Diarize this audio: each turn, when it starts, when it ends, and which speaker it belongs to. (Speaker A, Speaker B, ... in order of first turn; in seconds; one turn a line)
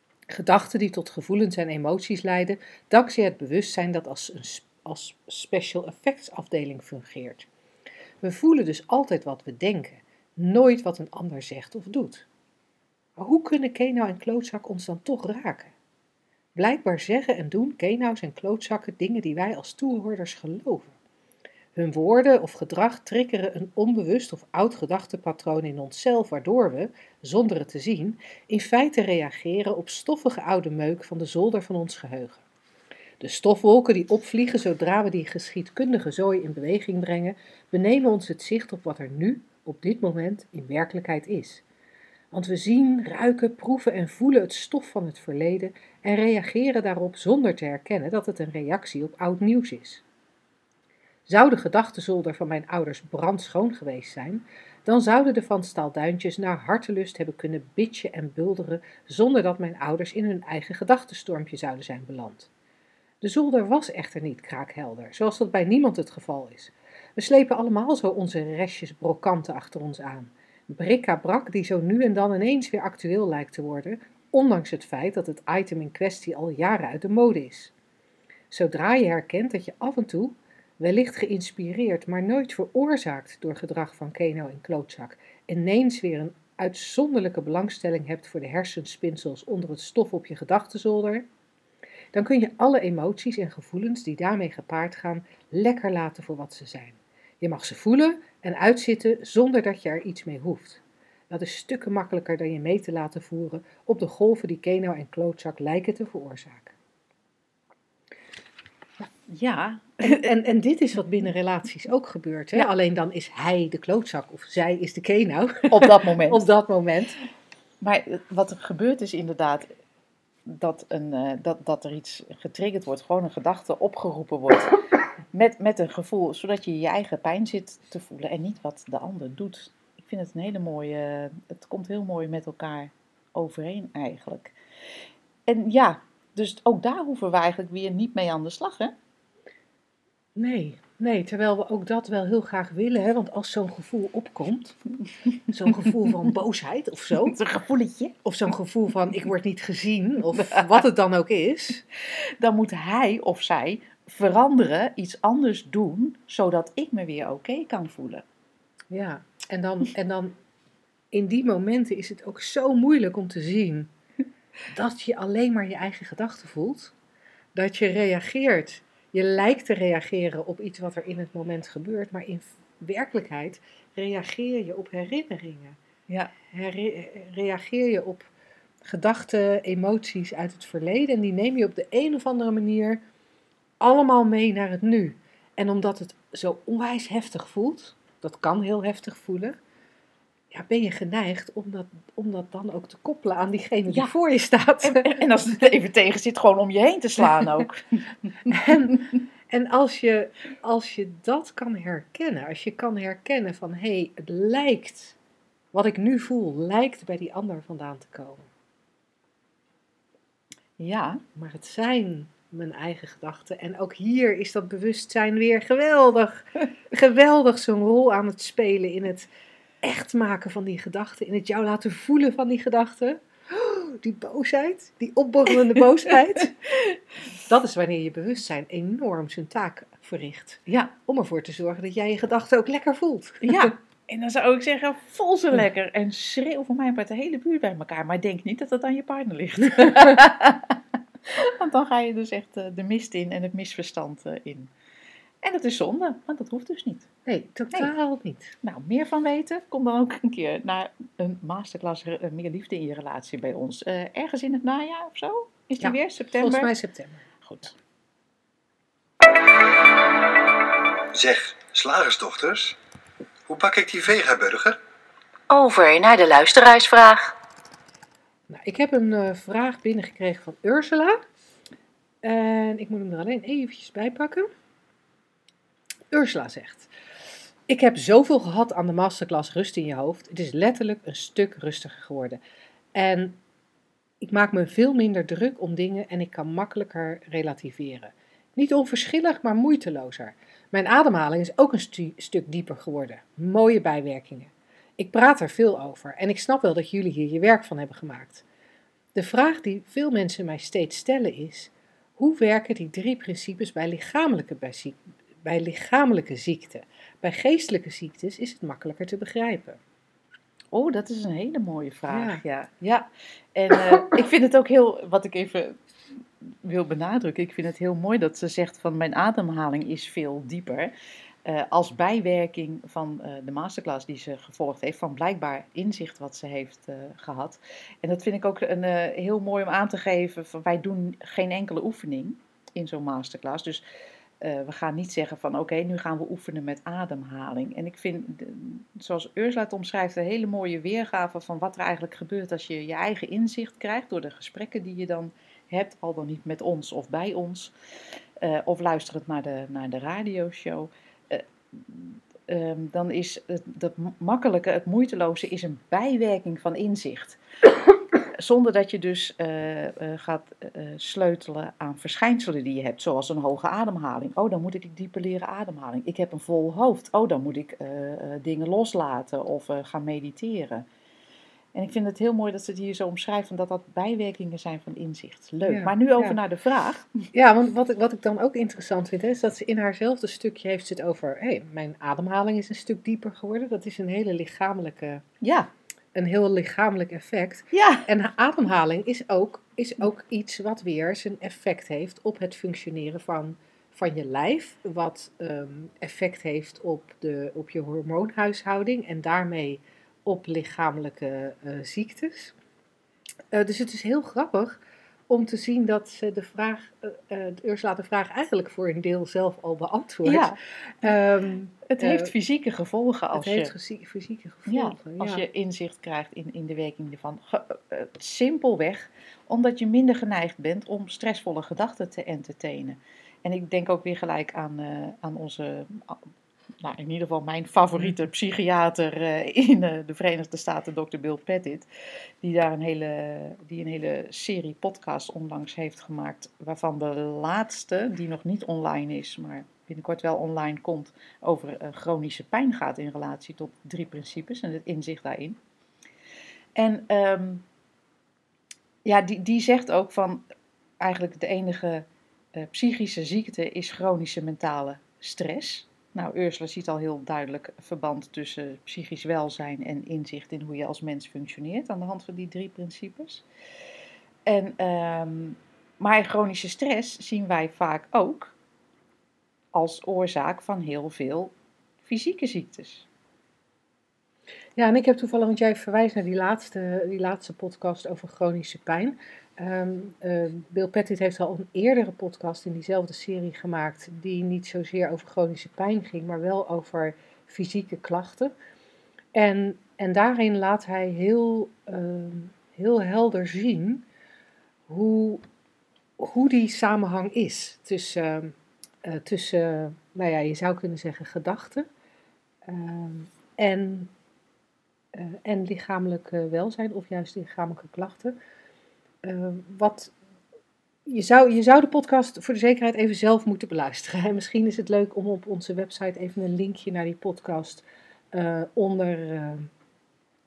Speaker A: 0.3-7.5
Speaker A: 8.2-12.3
Speaker A: 13.2-15.7
Speaker A: 16.6-20.9
Speaker A: 21.8-32.4
Speaker A: 33.2-41.6
Speaker A: 42.3-50.0
Speaker A: 51.3-62.5
Speaker A: 63.2-77.7
Speaker A: 78.5-91.2
Speaker A: 92.1-106.7
Speaker B: 109.3-110.3
Speaker A: 110.0-117.2
Speaker B: 115.7-116.5
Speaker B: 117.8-119.7
Speaker B: 120.5-124.8
Speaker B: 125.3-134.6
Speaker B: 135.5-138.9
Speaker A: 140.4-144.8
Speaker A: 145.5-147.4
Speaker B: 147.2-148.2
Speaker A: 148.2-151.8
Speaker B: 150.4-150.6
Speaker B: 152.1-158.2
Speaker A: 158.9-160.4
Speaker A: 161.1-163.9
Speaker A: 164.7-166.9
Speaker A: 167.6-175.8
Speaker A: 176.5-178.3
Speaker A: 178.8-183.0
Speaker A: 183.8-189.6
Speaker A: 190.5-195.2
Speaker B: 194.8-199.2
Speaker A: 198.5-205.2
Speaker A: 205.7-208.5
Speaker B: 210.8-211.2
Speaker A: 211.4-219.3
Speaker A: 219.8-226.5
Speaker B: 225.8-227.0
Speaker A: 227.4-233.7
Speaker B: 233.4-244.7
Speaker B: 245.4-247.1
Speaker A: 247.3-248.6
Speaker B: 248.6-256.7
Speaker A: 255.8-257.2
Speaker B: 257.4-257.8
Speaker C: 261.1-262.8
Speaker C: 263.5-264.8
Speaker B: 265.5-267.4
Speaker A: 268.5-271.2
Speaker A: 272.2-274.5
Speaker A: 276.1-276.9
Speaker A: 277.7-282.4
Speaker A: 282.9-283.4
Speaker A: 284.2-298.4
Speaker A: 299.1-309.8
Speaker B: 310.7-315.8
Speaker A: 312.1-312.4
Speaker B: 316.4-320.9
Speaker B: 321.4-333.8
Speaker B: 334.4-347.7
Speaker B: 348.4-357.4
Speaker B: 358.4-370.9
Speaker B: 371.8-377.2
Speaker A: 375.6-376.4
Speaker A: 377.3-385.2
Speaker B: 385.4-385.7
Speaker A: 386.1-402.6
Speaker B: 387.7-388.1
Speaker A: 403.5-412.3
Speaker B: 410.2-410.6
Speaker B: 411.9-413.7
Speaker A: 413.3-415.4
Speaker B: 414.7-426.2
Speaker B: 426.8-431.9
Speaker B: 432.4-445.6
Speaker B: 446.8-447.6
Speaker B: 449.1-450.4
Speaker B: 451.0-463.4
Speaker B: 464.5-468.6
Speaker B: 469.7-473.1
Speaker A: 474.8-488.5
Speaker A: 489.4-494.1
Speaker A: 494.9-495.4
Speaker A: 496.2-501.9
Speaker A: 502.7-504.1
Speaker A: 505.1-508.4
Speaker A: 509.2-510.1
Speaker A: 511.1-519.7